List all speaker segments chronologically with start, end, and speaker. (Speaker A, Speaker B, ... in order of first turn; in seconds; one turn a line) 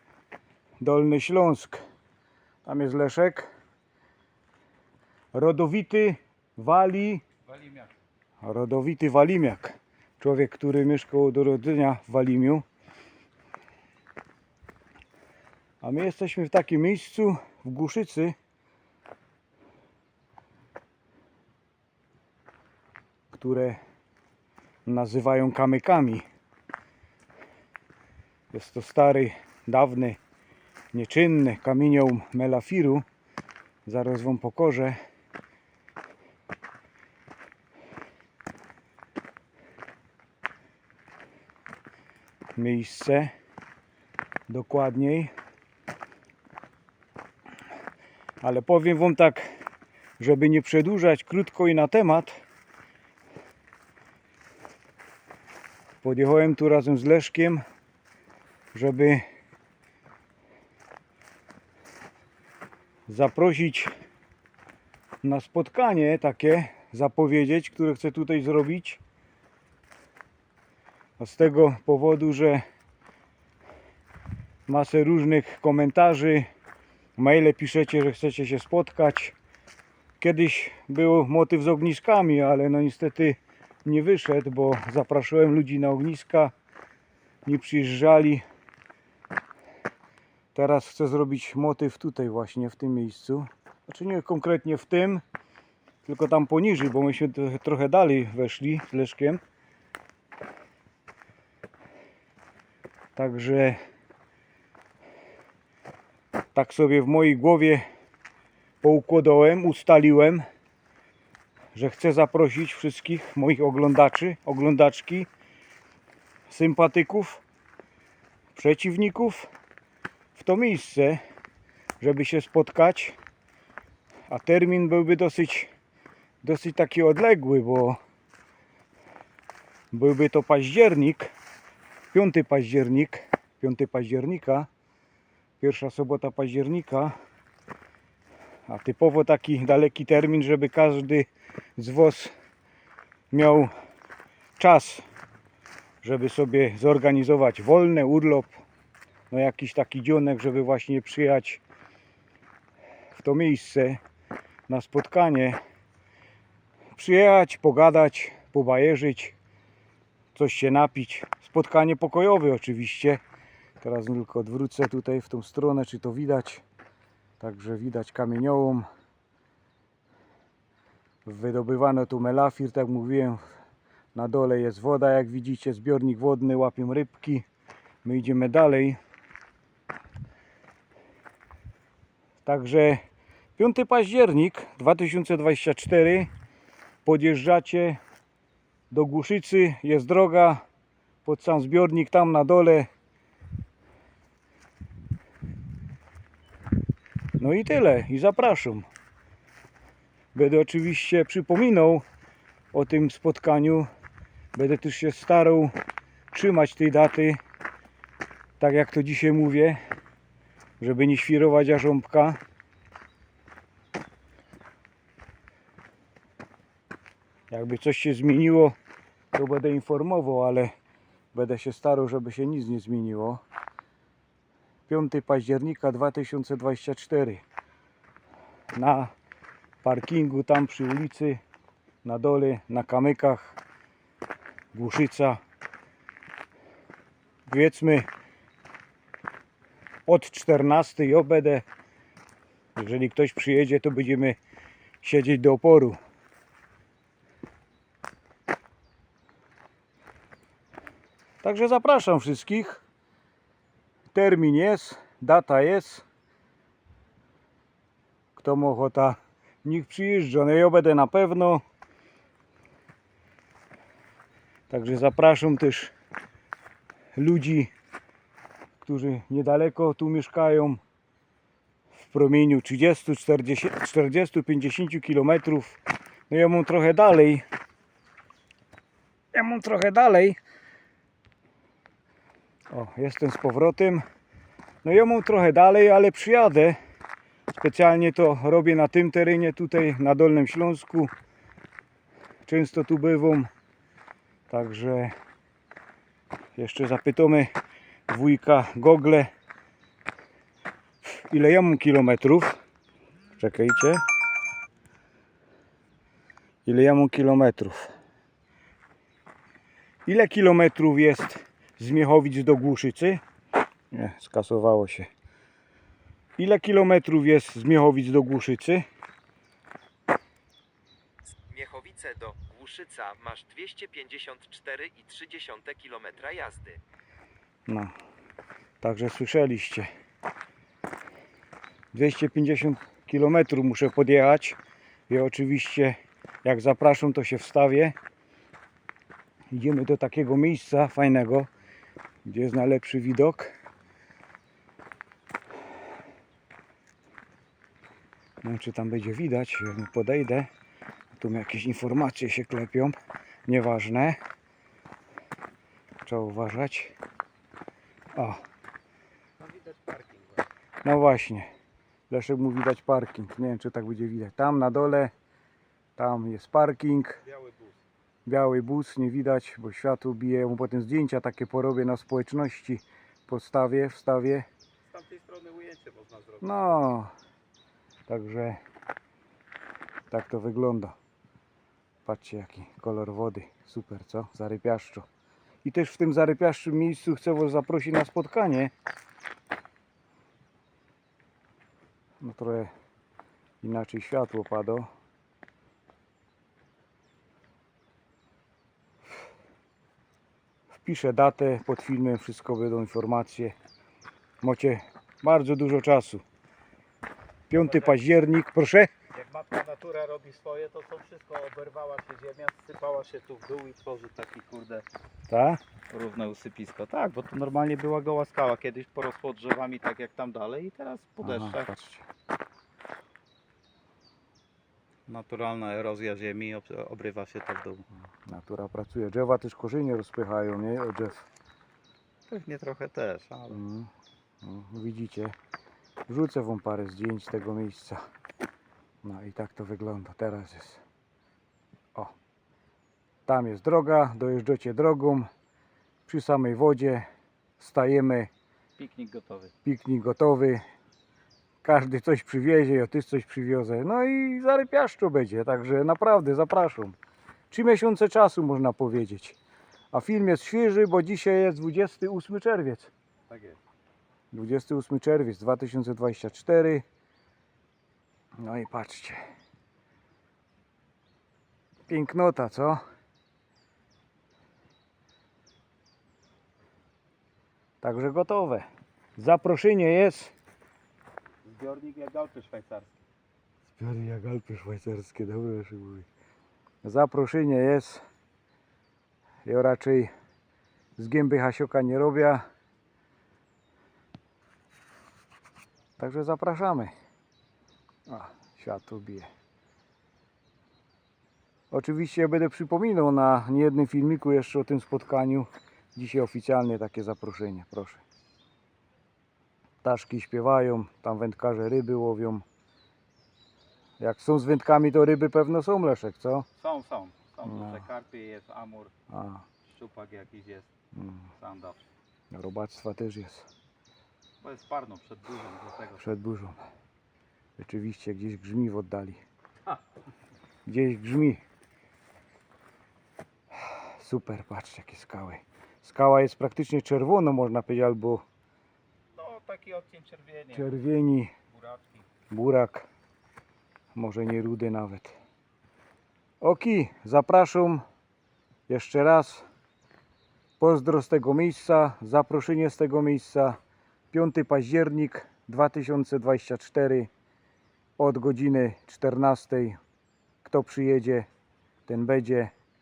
Speaker A: 0.8-1.8
Speaker A: 2.6-3.5
Speaker A: 5.3-7.3
Speaker A: 8.4-12.7
Speaker A: 15.8-18.4
Speaker A: 23.3-23.8
Speaker A: 24.9-26.3
Speaker A: 28.5-30.2
Speaker A: 30.9-33.0
Speaker A: 33.9-35.0
Speaker A: 42.6-43.3
Speaker A: 44.5-45.3
Speaker A: 48.4-49.4
Speaker A: 50.2-52.4
Speaker A: 56.0-57.6
Speaker A: 58.7-59.2
Speaker A: 63.1-63.9
Speaker A: 65.2-69.0
Speaker A: 71.2-72.6
Speaker A: 74.7-76.5
Speaker A: 77.2-79.3
Speaker A: 80.2-86.5
Speaker A: 87.5-88.4
Speaker A: 90.5-95.2
Speaker A: 96.0-99.4
Speaker A: 103.2-103.8
Speaker A: 106.5-107.8
Speaker A: 108.8-110.4
Speaker A: 111.8-115.3
Speaker A: 116.5-117.4
Speaker A: 118.5-119.5
Speaker A: 120.3-121.2
Speaker A: 122.0-123.2
Speaker A: 124.3-125.7
Speaker A: 126.4-128.0
Speaker A: 129.9-131.3
Speaker A: 132.1-134.7
Speaker A: 135.6-137.2
Speaker A: 138.7-142.3
Speaker A: 143.3-143.7
Speaker A: 144.6-145.0
Speaker A: 146.0-148.6
Speaker A: 149.3-151.6
Speaker A: 153.2-154.0
Speaker A: 154.7-155.6
Speaker A: 156.9-159.3
Speaker A: 160.3-163.2
Speaker A: 163.8-166.6
Speaker A: 167.4-168.9
Speaker A: 171.2-173.4
Speaker A: 174.1-177.5
Speaker A: 178.0-179.0
Speaker A: 182.4-183.0
Speaker A: 183.6-186.3
Speaker A: 187.1-188.0
Speaker A: 188.9-190.6
Speaker A: 191.2-192.9
Speaker A: 197.4-198.9
Speaker A: 200.3-202.1
Speaker A: 202.7-203.9
Speaker A: 204.6-205.7
Speaker A: 206.3-207.4
Speaker A: 208.6-209.8
Speaker A: 210.8-212.4
Speaker A: 217.5-218.8
Speaker A: 219.3-220.7
Speaker A: 221.3-223.4
Speaker A: 224.9-227.4
Speaker A: 228.7-229.1
Speaker A: 229.8-231.4
Speaker A: 232.0-233.6
Speaker A: 234.7-235.4
Speaker A: 237.5-238.1
Speaker A: 240.1-241.7
Speaker A: 242.8-244.4
Speaker A: 245.0-246.0
Speaker A: 251.4-252.8
Speaker A: 254.1-256.1
Speaker A: 258.4-261.6
Speaker A: 264.7-265.9
Speaker A: 267.2-267.7
Speaker A: 268.8-270.8
Speaker A: 272.0-277.4
Speaker A: 279.3-280.4
Speaker A: 282.7-284.0
Speaker A: 284.8-286.8
Speaker A: 287.5-291.1
Speaker A: 292.5-293.5
Speaker A: 294.5-295.1
Speaker A: 296.6-297.5
Speaker A: 298.1-299.3
Speaker A: 301.1-302.6
Speaker A: 303.4-304.0
Speaker A: 306.6-307.9
Speaker A: 310.1-313.2
Speaker A: 313.9-315.1
Speaker A: 316.4-318.8
Speaker B: 321.5-326.8
Speaker A: 327.7-327.9
Speaker A: 328.8-329.9
Speaker A: 331.9-334.6
Speaker A: 335.1-338.0
Speaker A: 339.5-341.5
Speaker A: 342.2-343.5
Speaker A: 348.4-350.5
Speaker A: 351.1-354.2
Speaker A: 356.1-357.0
Speaker A: 358.1-358.4
Speaker C: 359.4-360.4
Speaker A: 360.8-361.5
Speaker A: 362.1-365.1
Speaker A: 366.0-367.2
Speaker C: 367.2-367.8
Speaker A: 368.3-374.5
Speaker C: 374.9-376.8
Speaker A: 376.4-377.1
Speaker A: 378.1-378.6
Speaker A: 380.1-380.9
Speaker A: 382.1-385.1
Speaker A: 385.6-388.7
Speaker A: 392.2-392.7
Speaker A: 393.6-394.9
Speaker A: 400.8-403.6
Speaker A: 404.4-406.2
Speaker A: 407.5-408.9
Speaker C: 407.6-408.0
Speaker C: 409.1-414.9
Speaker A: 415.3-415.6
Speaker C: 415.9-421.7
Speaker A: 421.2-422.1
Speaker C: 425.1-427.9
Speaker A: 428.1-431.3
Speaker C: 432.3-433.6
Speaker A: 433.5-433.9
Speaker A: 434.4-435.4
Speaker A: 436.1-438.0
Speaker A: 439.0-440.8
Speaker A: 443.3-445.3
Speaker A: 446.1-447.1
Speaker A: 447.6-448.3
Speaker C: 448.8-449.5
Speaker A: 449.6-450.6
Speaker A: 451.6-457.0
Speaker A: 457.5-459.4
Speaker A: 459.9-462.9
Speaker C: 463.3-463.6
Speaker A: 464.3-466.8
Speaker A: 468.4-469.2
Speaker A: 471.9-472.8
Speaker A: 477.8-478.7
Speaker A: 479.2-480.3
Speaker C: 481.4-482.9
Speaker A: 483.8-486.1
Speaker A: 486.8-488.0
Speaker A: 489.4-490.1
Speaker A: 491.0-492.4
Speaker A: 496.0-496.9
Speaker A: 498.1-499.3
Speaker A: 501.7-508.0
Speaker A: 509.8-512.5
Speaker A: 514.0-516.5
Speaker C: 516.6-518.9
Speaker A: 517.5-517.8
Speaker A: 519.1-519.5
Speaker C: 519.6-520.7
Speaker A: 521.0-521.3
Speaker C: 521.4-521.8
Speaker A: 522.3-523.5
Speaker C: 524.4-526.1
Speaker A: 526.0-526.6
Speaker A: 527.6-529.2
Speaker A: 530.7-531.4
Speaker A: 533.7-538.2
Speaker C: 539.2-540.8
Speaker A: 540.5-541.3
Speaker C: 541.5-542.0
Speaker A: 542.3-542.9
Speaker A: 544.0-545.2
Speaker A: 546.4-547.8
Speaker A: 548.7-549.5
Speaker A: 550.6-553.6
Speaker A: 554.1-557.1
Speaker A: 558.0-559.8
Speaker A: 560.4-561.3
Speaker A: 561.9-562.5